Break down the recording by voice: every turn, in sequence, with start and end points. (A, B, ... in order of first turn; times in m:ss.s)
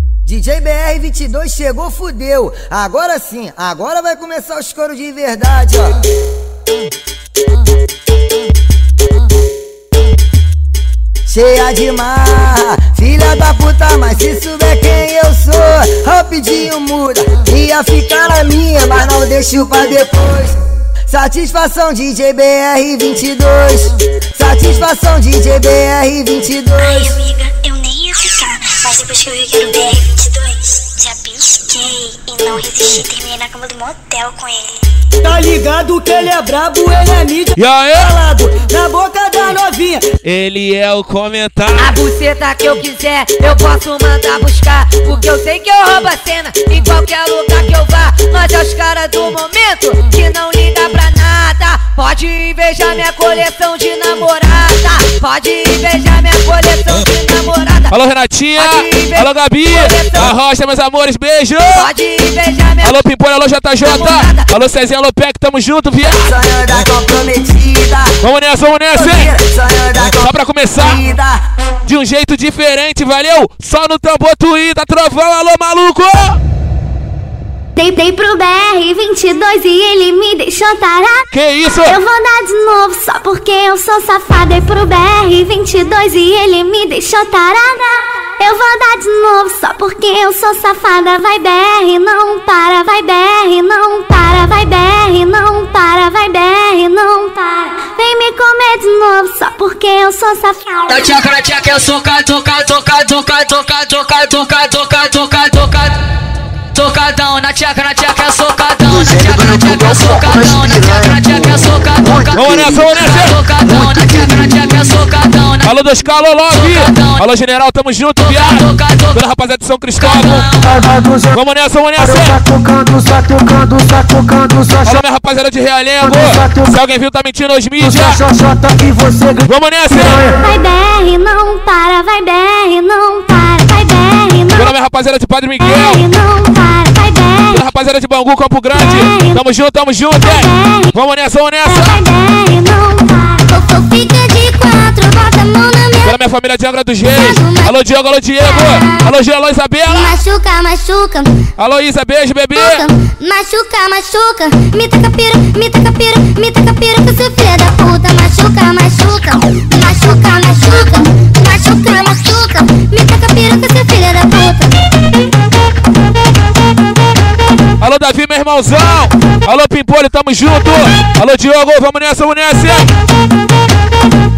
0:00.3-0:06.0 A
0:11.3-0:20.6 A
0:21.1-0:27.2 A
0:27.2-0:34.6 B
0:35.2-0:40.0 A
0:37.6-0:38.2 C
0:40.2-0:42.0 C
0:41.8-0:57.9 D
0:57.9-1:01.9 C
0:58.6-1:00.4 D
1:01.7-1:03.0 D
1:02.8-1:06.4 C
1:03.8-1:04.5 D
1:06.2-1:08.2 A
1:08.2-1:09.4 C
1:08.9-1:11.4 A
1:10.0-1:11.0 C
1:11.9-1:16.4 C
1:17.8-1:21.3 E
1:21.3-1:22.0 C
1:21.8-1:41.0 E
1:40.9-1:46.0 F
1:46.8-1:52.2 F
1:52.3-1:53.4 C
1:53.0-1:55.7 F
1:55.6-2:00.5 C
1:56.6-1:57.2 F
1:58.4-1:59.2 F
2:00.5-2:01.4 G
2:01.3-2:02.4 C
2:02.0-2:05.0 G
2:04.8-2:08.2 C
2:06.0-2:06.8 G
2:07.8-2:09.5 G
2:09.4-2:10.2 C
2:09.9-2:14.7 E
2:10.1-2:10.3 G
2:14.5-2:16.0 C
2:15.6-2:17.6 E
2:17.5-2:22.0 C
2:18.7-2:19.4 E
2:20.2-2:21.0 E
2:21.6-2:26.2 E
2:26.0-2:30.2 C
2:27.0-2:27.8 E
2:28.4-2:29.1 E
2:29.9-2:31.3 E
2:31.6-2:32.9 C
2:32.6-2:44.8 E
2:47.8-2:52.9 C